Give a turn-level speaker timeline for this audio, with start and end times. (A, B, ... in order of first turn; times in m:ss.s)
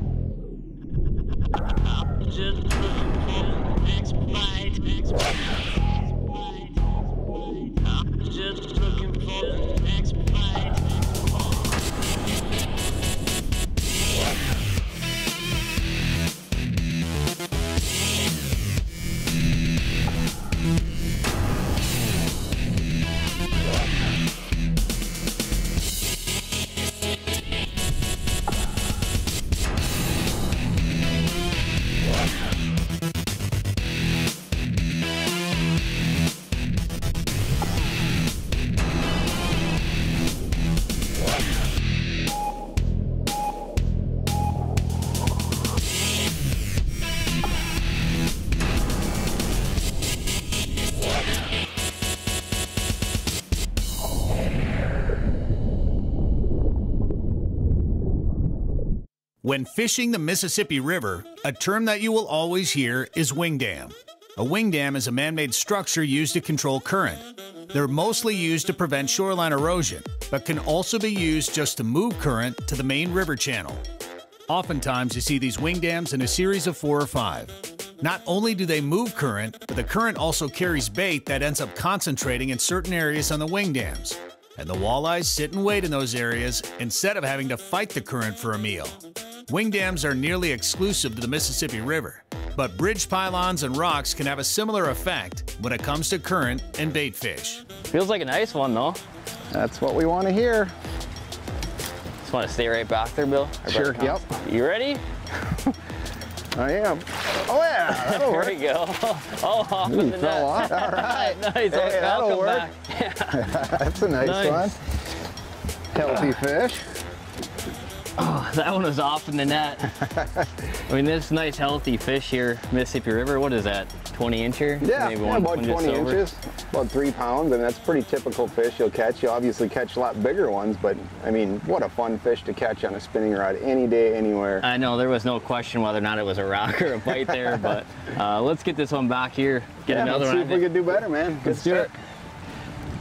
0:04.3-0:04.8 A
0:59.4-1:13.8 B
1:14.5-1:29.0 B
1:29.5-1:37.6 B
1:37.9-1:39.0 A
1:39.5-1:40.7 C
1:42.2-1:45.0 A
1:43.7-1:44.2 C
1:46.6-1:48.6 C
1:47.9-1:53.6 A
1:49.9-1:52.7 C
1:53.3-1:54.8 C
1:54.2-1:54.8 A
1:55.9-1:56.8 C
1:58.2-2:00.0 A
2:00.9-2:06.2 A
2:04.8-2:14.6 C
2:14.6-2:20.7 A
2:19.9-2:21.9 C
2:21.4-2:21.9 A